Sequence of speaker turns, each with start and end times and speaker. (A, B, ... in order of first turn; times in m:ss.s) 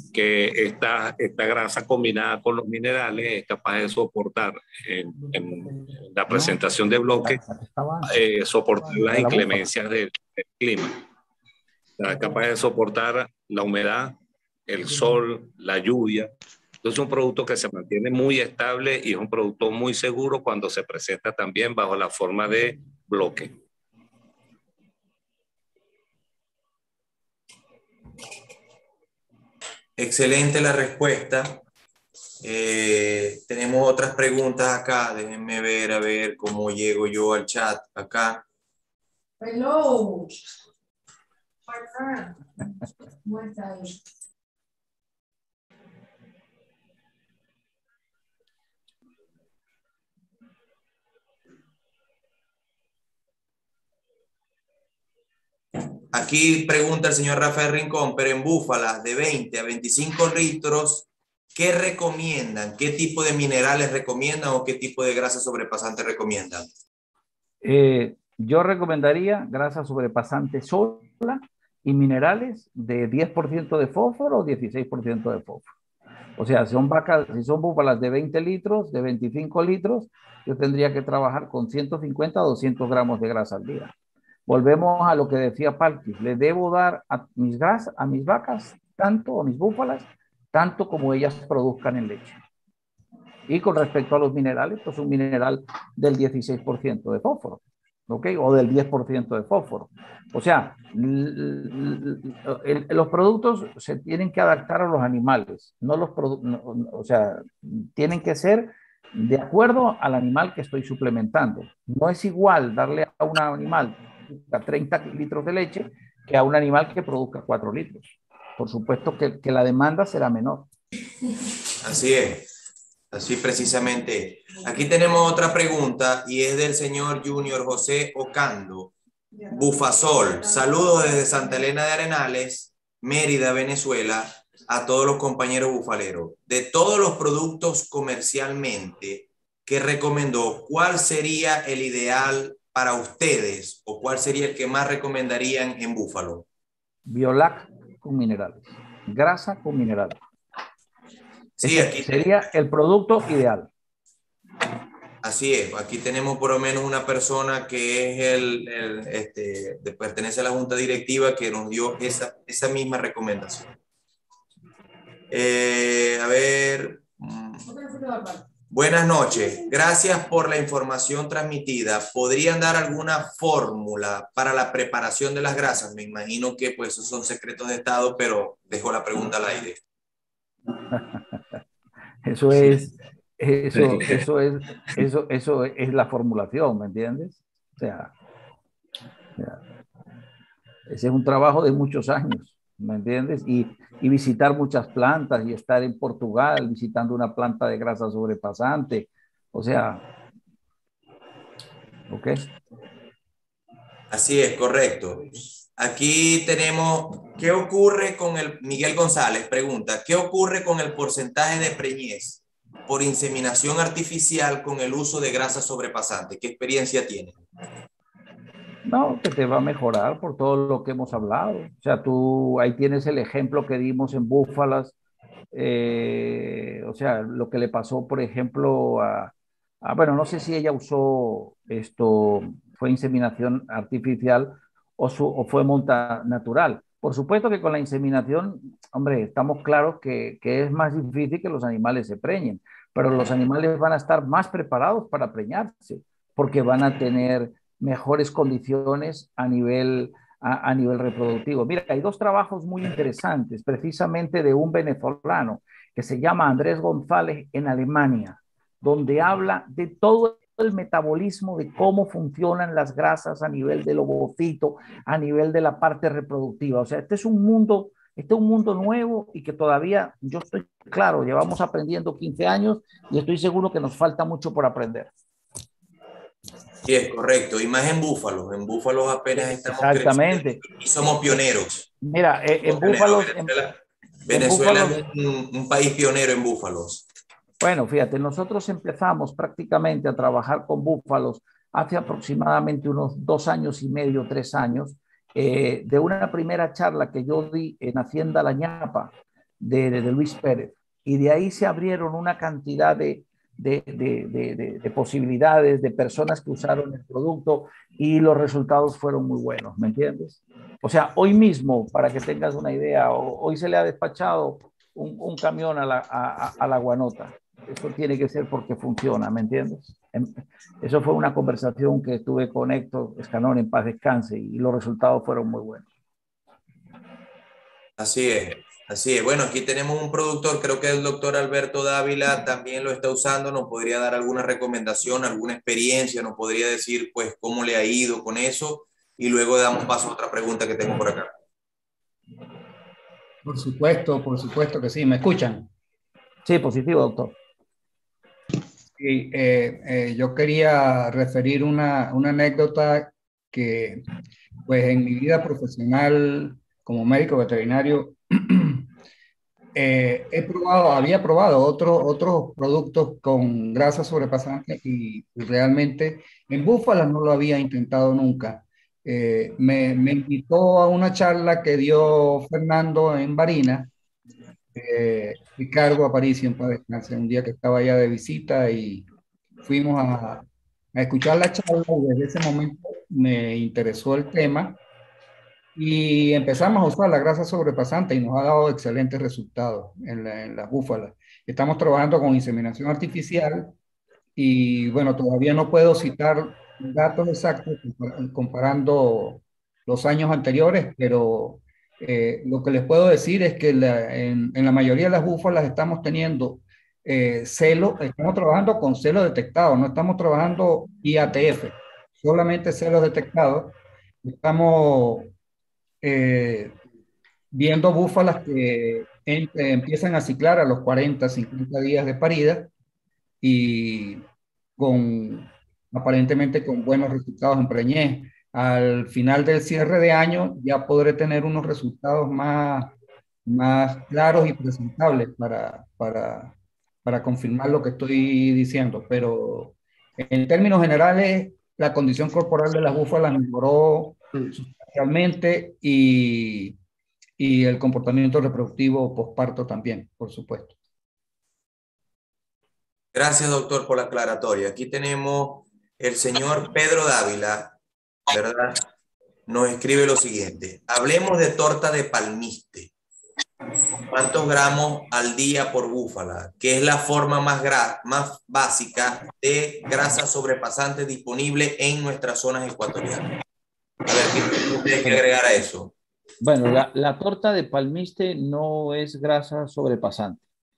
0:00.1-0:07.4 A
0:06.3-0:06.6 B
0:07.2-0:08.1 B
0:08.1-0:11.0 A
0:08.9-0:09.6 B
0:12.0-0:14.2 A
0:14.7-0:16.3 A
0:16.8-0:23.5 A
0:30.0-0:31.6 C
0:32.4-0:38.4 C
0:56.1-1:06.7 C
1:07.6-1:15.7 B
1:16.4-1:23.9 B
1:24.5-1:32.4 B
1:33.5-2:00.7 B
2:01.8-2:02.5 C
2:03.1-2:08.9 C
2:09.5-2:26.4 C
2:27.1-2:30.2 B
2:31.6-2:32.5 C
2:31.6-2:33.7 B
2:35.2-2:43.7 C
2:45.3-2:47.8 C
2:48.7-2:59.8 C
3:00.9-3:01.4 B
3:02.2-3:08.1 B
3:10.9-3:20.0 B
3:22.1-3:22.5 B
3:24.1-3:37.4 C
3:38.8-3:45.0 B
3:45.5-4:35.1 B
4:36.8-4:41.9 C
4:39.4-4:40.6 B
4:42.0-4:43.5 B
4:42.6-4:47.1 C
4:44.3-4:45.0 B
4:47.6-5:25.9 B
5:28.0-5:41.3 C
5:43.5-5:45.6 D
5:46.4-5:47.4 B
5:49.0-5:54.0 D
5:54.7-5:58.6 D
5:59.8-6:13.9 D
6:14.8-6:19.0 D
6:19.7-6:20.4 D
6:21.0-6:24.8 D
6:25.8-6:33.7 D
6:34.4-6:51.7 D
6:52.2-6:53.7 D
6:54.3-6:55.3 D
6:56.0-6:56.7 D
6:57.5-7:02.7 D
7:03.4-7:04.2 D
7:04.8-7:12.9 D
7:13.5-7:16.5 D
7:17.1-7:19.7 D
7:20.3-7:26.7 D
7:27.4-7:30.7 D
7:33.1-7:37.8 C
7:38.3-7:38.8 C
7:39.5-7:42.9 C
7:44.0-7:53.3 C
7:54.1-7:55.9 C
7:56.4-8:00.4 B